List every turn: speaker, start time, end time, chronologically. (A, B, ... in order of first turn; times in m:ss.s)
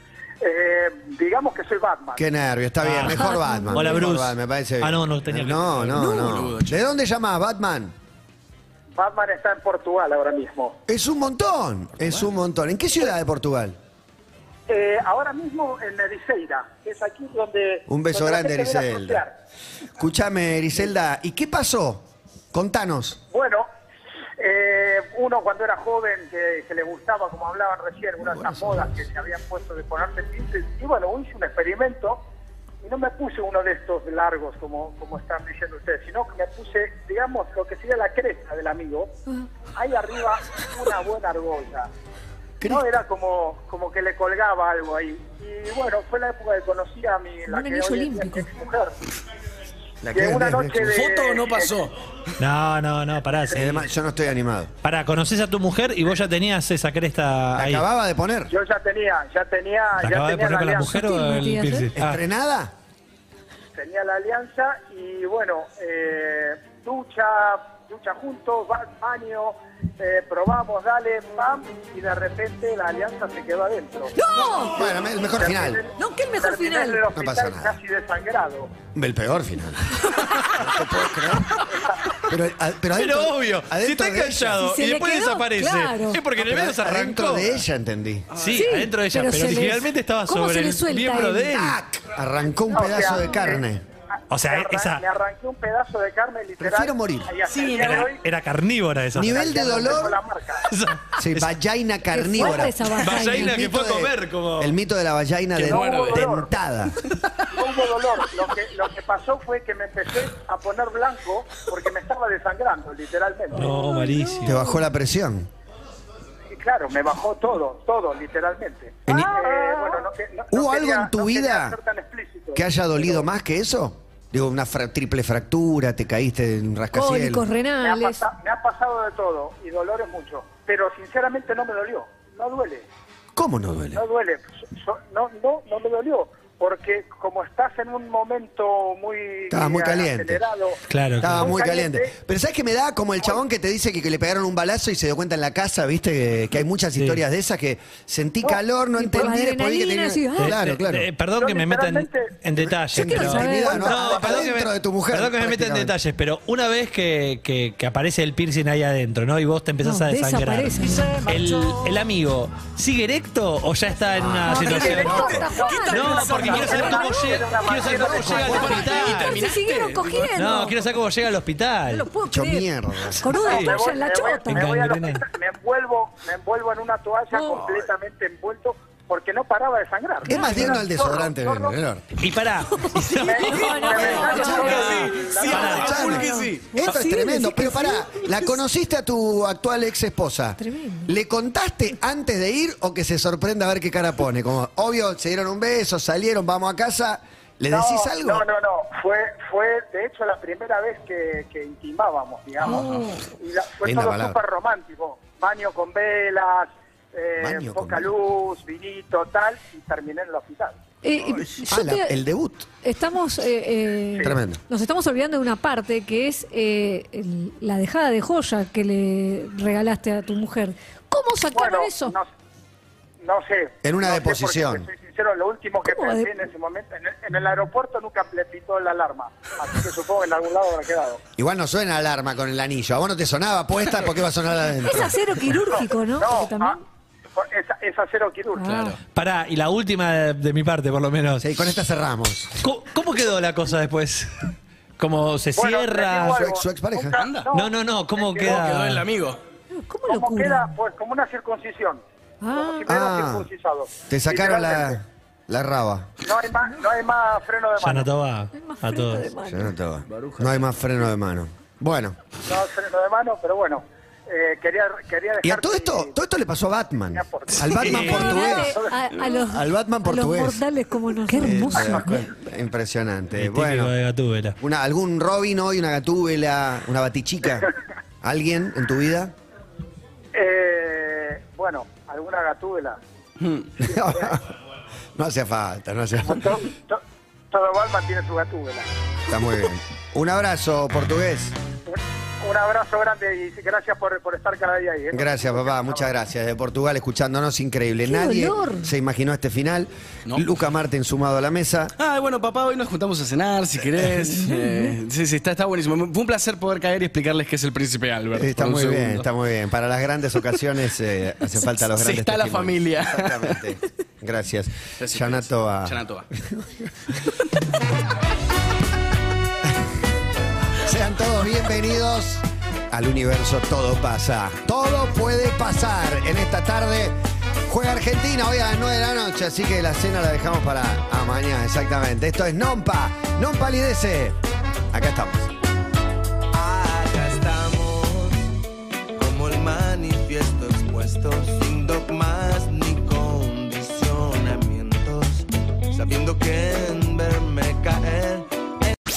0:00.4-0:02.2 A
0:02.2-0:07.9 B
0:02.8-0:06.3 C
0:03.1-0:04.0 D
0:05.9-0:06.8 E
0:08.9-0:10.8 A
0:10.9-0:13.8 B
0:14.7-0:19.3 A
0:17.9-0:19.2 B
0:20.0-0:23.2 B
0:23.3-0:23.7 A
0:24.4-0:32.2 A
0:28.2-0:29.0 B
0:32.8-0:39.1 A
0:39.7-0:41.9 A
0:42.6-0:42.9 B
0:42.6-0:48.9 A
0:47.5-0:48.5 D
0:50.0-0:51.0 B
0:50.1-0:51.7 A
0:50.8-0:51.9 E
0:52.4-0:53.9 C
0:53.5-0:54.7 B
0:54.8-0:57.8 C
0:57.6-0:58.5 B
0:58.5-1:00.9 A
1:00.0-1:02.2 C
1:00.8-1:01.9 D
1:02.0-1:02.7 B
1:03.7-1:14.1 A
1:14.2-1:14.9 D
1:14.5-1:15.8 B
1:14.8-1:18.8 A
1:16.0-1:17.0 D
1:17.1-1:17.7 B
1:18.9-1:21.6 B
1:20.2-1:20.5 D
1:22.2-1:24.6 B
1:22.9-1:27.6 C
1:24.6-1:26.2 D
1:26.4-1:28.3 B
1:28.3-1:28.7 E
1:28.4-1:31.8 C
1:28.6-1:31.5 D
1:31.5-1:33.8 B
1:32.7-1:33.5 D
1:32.7-1:33.6 A
1:34.3-1:35.0 C
1:34.4-1:38.2 A
1:36.6-1:37.3 B
1:37.4-1:38.2 E
1:38.1-1:39.6 C
1:39.1-1:40.2 B
1:39.2-1:40.7 A
1:40.7-1:41.5 C
1:41.2-1:47.0 B
1:42.1-1:43.6 D
1:42.4-1:44.8 C
1:45.6-1:46.4 E
1:45.7-1:46.5 A
1:47.5-1:53.7 A
1:53.5-1:54.7 C
1:53.5-1:54.8 D
1:54.4-1:55.5 B
1:56.5-2:03.3 A
1:59.1-1:59.4 B
1:59.1-1:59.8 D
2:00.5-2:01.8 B
2:02.5-2:07.4 B
2:06.9-2:08.2 D
2:07.8-2:12.8 A
2:13.3-2:14.0 B
2:13.9-2:20.8 A
2:19.5-2:20.4 B
2:20.9-2:21.5 C
2:21.2-2:31.1 B
2:21.4-2:22.1 A
2:27.0-2:27.2 C
2:29.0-2:30.6 D
2:30.4-2:49.5 C
2:31.4-2:32.3 A
2:32.6-2:35.9 B
2:32.9-2:34.4 D
2:39.8-2:41.2 D
2:40.8-2:42.0 E
2:44.2-2:45.4 B
2:44.4-2:47.5 D
2:44.4-2:50.7 E
2:44.9-2:48.4 A
2:47.8-2:48.9 B
2:48.2-2:50.8 D
2:50.4-2:52.0 C
2:51.9-2:54.7 D
2:52.3-2:53.3 B
2:53.3-2:53.8 C
2:53.4-3:01.8 A
2:54.4-2:55.2 C
2:57.3-2:57.6 D
2:57.4-2:57.9 E
3:00.2-3:02.0 B
3:00.3-3:00.8 D
3:02.2-3:06.4 C
3:02.9-3:06.8 E
3:03.2-3:06.0 A
3:03.5-3:04.9 D
3:04.0-3:05.0 B
3:05.5-3:18.5 B
3:05.6-3:08.1 D
3:10.6-3:11.1 D
3:17.7-3:22.8 A
3:22.6-3:23.2 D
3:23.4-3:30.8 A
3:23.8-3:24.4 B
3:27.4-3:28.1 B
3:31.0-3:32.2 D
3:31.7-3:32.7 B
3:32.8-3:42.2 D
3:34.2-3:34.6 B
3:41.5-3:42.3 A
3:43.2-3:51.2 A
3:43.8-3:44.9 B
3:45.8-3:46.3 D
3:51.4-3:55.6 B
3:54.8-3:56.8 D
3:55.7-3:56.8 A
3:57.3-3:58.6 A
3:58.5-3:59.0 D
3:58.6-3:59.0 E
3:59.1-4:01.4 C
4:01.4-4:02.5 B
4:02.6-4:06.4 C
4:05.6-4:07.7 A
4:06.2-4:07.2 B
4:07.2-4:07.5 E
4:07.5-4:09.0 C
4:08.2-4:09.4 E
4:08.3-4:08.6 A
4:09.8-4:10.7 D
4:10.1-4:15.0 A
4:12.4-4:12.9 D
4:12.8-4:13.5 B
4:14.1-4:16.1 B
4:16.2-4:18.1 A
4:17.8-4:19.3 C
4:18.5-4:19.7 D
4:19.4-4:22.2 B
4:20.1-4:20.7 E
4:22.4-4:26.1 A
4:25.4-4:28.8 B
4:27.1-4:28.9 A
4:27.7-4:28.5 C
4:27.9-4:32.2 D
4:29.4-4:30.6 B
4:31.3-4:33.9 B
4:33.4-4:34.6 C
4:34.6-4:37.7 B
4:38.2-4:39.3 B
4:40.3-4:43.0 A
4:43.4-4:43.7 E
4:43.8-4:44.5 B
4:43.9-4:44.3 A
4:45.2-4:46.6 B
4:46.3-4:48.9 A
4:49.3-4:51.6 B
4:51.8-4:56.1 A
4:55.1-5:01.9 B
4:58.0-4:58.9 D
5:02.0-5:09.2 E
5:04.4-5:04.9 D
5:08.3-5:16.9 B
5:11.5-5:13.6 E
5:15.0-5:16.2 E
5:20.8-5:27.1 B
5:27.7-5:34.4 B
5:34.9-5:35.5 B
5:36.5-5:38.5 F
5:39.2-5:48.4 F